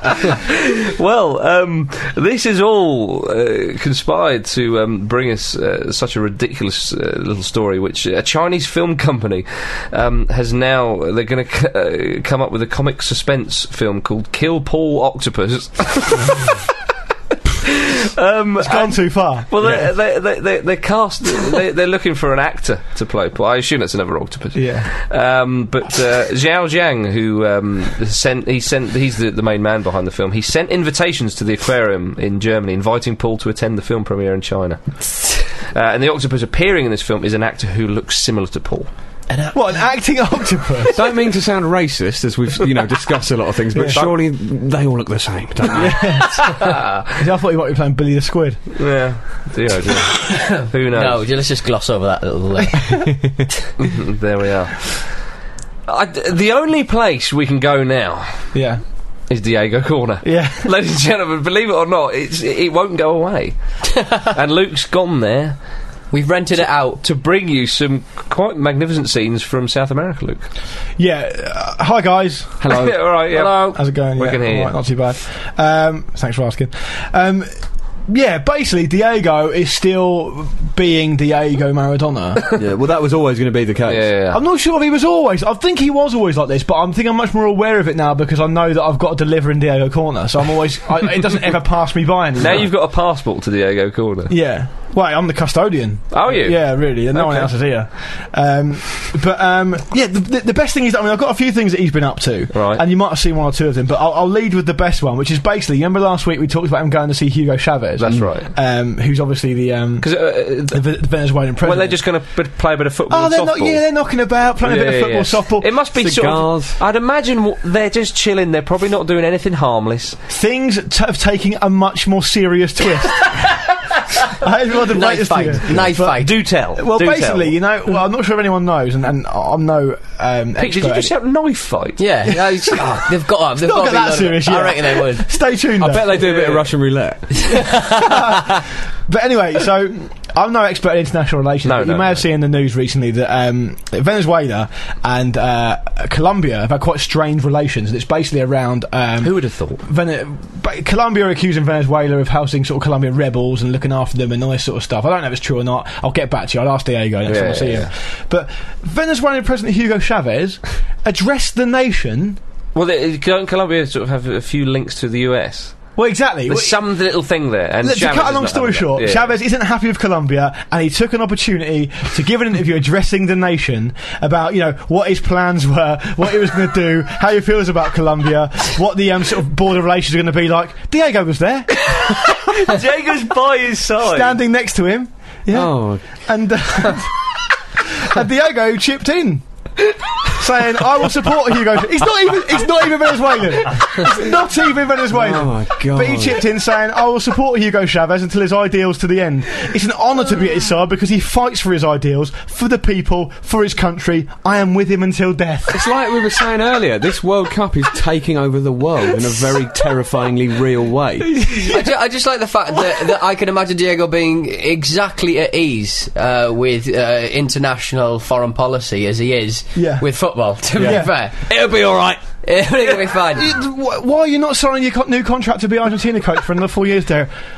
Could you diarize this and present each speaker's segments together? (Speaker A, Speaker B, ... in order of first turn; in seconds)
Speaker A: 0.5-16.6, 17.7-38.9, 43.9-44.2, 46.5-47.0, 48.8-51.3, 53.8-55.1, 55.9-58.5, 59.3-65.6, 66.6-70.5, 72.7-74.8, 83.9-84.4, 92.4-94.4, 96.1-97.6, 102.5-102.8, 108.0-108.5, 110.0-111.0, 111.6-114.0, 114.6-120.2, 126.0-127.6, 130.6-132.8, 136.1-136.7, 141.6-142.2, 149.2-149.8, 157.2-157.9, 162.8-169.3, 182.0-184.4
Speaker B: 18.6-19.8, 24.5-24.9, 39.5-41.1, 45.7-48.8, 58.5-58.8, 60.2-60.7, 71.0-82.4, 84.3-92.7, 94.3-112.1, 113.1-115.7, 120.3-131.1, 133.6-136.3, 139.1-162.4, 166.0-166.8, 167.8-182.7, 184.0-187.3, 188.0-189.4, 190.3-205.9, 219.8-220.1, 220.8-221.1, 223.3-227.3
Speaker C: 40.9-46.3, 72.6-73.5, 82.6-84.1, 115.9-116.8, 135.8-137.8, 185.5-186.3, 195.1-196.4, 205.7-211.5, 220.8-222.3
Speaker D: 50.2-53.0, 66.1-67.0, 124.9-126.3, 132.0-135.3, 137.7-138.1, 211.7-221.5, 222.4-223.5